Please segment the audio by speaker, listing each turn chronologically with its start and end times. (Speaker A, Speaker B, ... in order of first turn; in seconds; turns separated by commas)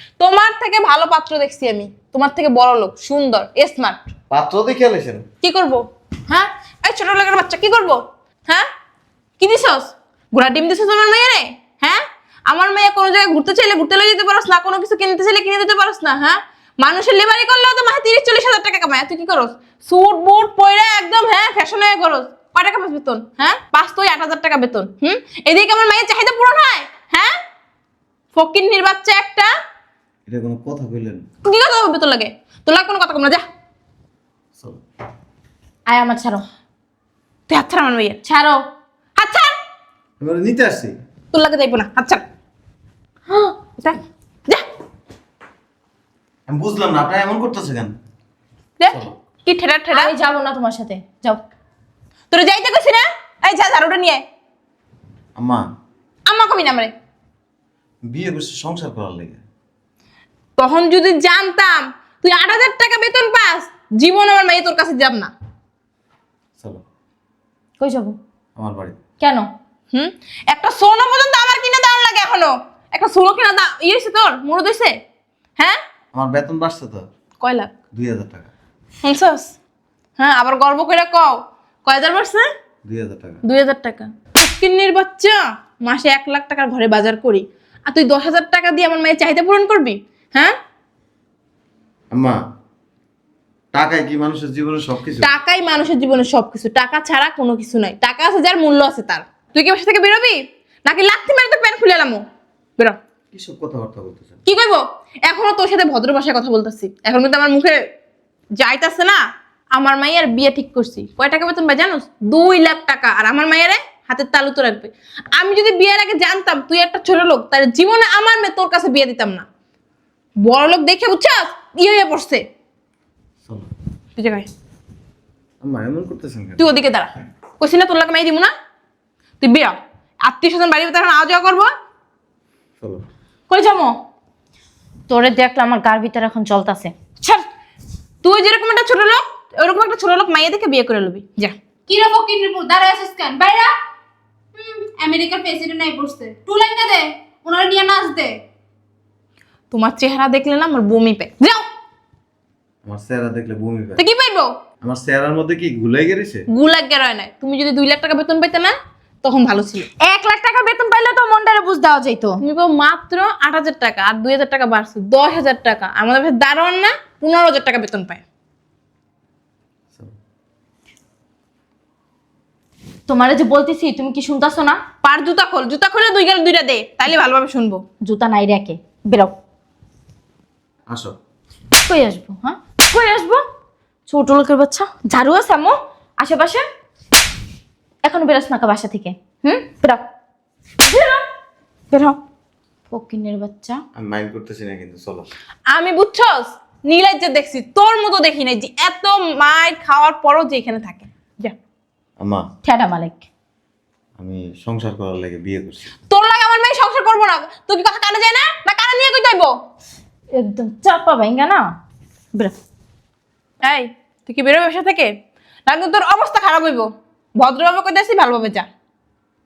Speaker A: 0.2-4.0, Speaker B: 4.3-5.2, Speaker A: 5.4-8.7, Speaker A: 9.4-27.4, Speaker A: 28.3-29.5, Speaker B: 30.3-31.2, Speaker A: 31.4-33.4, Speaker C: 35.9-36.5, Speaker A: 37.5-38.2, Speaker C: 38.2-38.6, Speaker A: 39.2-39.5, Speaker B: 40.2-41.0, Speaker A: 41.3-42.2, Speaker A: 43.4-44.6, Speaker B: 46.5-47.9, Speaker A: 48.8-50.1, Speaker C: 49.9-51.4, Speaker A: 52.3-54.2, Speaker B: 55.4-55.7, Speaker A: 56.3-56.9, Speaker B: 58.1-59.4, Speaker A: 60.6-65.3, Speaker C: 67.8-68.2, Speaker B: 68.6-69.0, Speaker C: 69.2-69.5, Speaker A: 69.9-75.0, Speaker B: 76.1-77.0, Speaker A: 77.4-77.7, Speaker B: 77.9-78.5, Speaker A: 79.0-79.5, Speaker A: 80.2-82.5, Speaker B: 82.9-83.4, Speaker A: 83.5-90.5, Speaker B: 92.1-92.4, Speaker B: 93.7-95.3, Speaker A: 95.2-102.3, Speaker B: 103.3-104.3, Speaker A: 104.5-107.8, Speaker A: 108.6-109.2, Speaker A: 109.8-119.5, Speaker A: 120.4-122.5, Speaker B: 123.5-123.7, Speaker A: 124.2-124.5, Speaker B: 125.6-126.6, Speaker A: 126.6-128.5, Speaker A: 129.4-131.7, Speaker C: 133.5-133.9, Speaker C: 135.1-136.9, Speaker A: 138.2-141.6, Speaker D: 141.9-143.8, Speaker D: 144.6-148.4, Speaker A: 149.7-151.7, Speaker B: 152.8-154.0, Speaker A: 154.0-154.5, Speaker B: 154.8-156.4, Speaker A: 156.5-159.9, Speaker C: 160.0-162.4, Speaker A: 162.4-168.2, Speaker C: 173.1-174.8, Speaker A: 175.0-177.8, Speaker C: 178.0-179.3, Speaker B: 180.9-181.1, Speaker C: 181.9-183.4, Speaker C: 184.1-186.6, Speaker C: 188.0-190.0, Speaker C: 190.8-191.2, Speaker C: 191.9-192.2, Speaker C: 192.9-193.8, Speaker B: 193.9-195.3, Speaker A: 195.7-201.6, Speaker B: 202.2-202.4, Speaker C: 202.6-203.2, Speaker B: 204.2-205.9, Speaker A: 206.1-209.5, Speaker C: 210.3-211.6, Speaker A: 213.6-215.1, Speaker A: 215.7-216.9, Speaker A: 217.4-218.7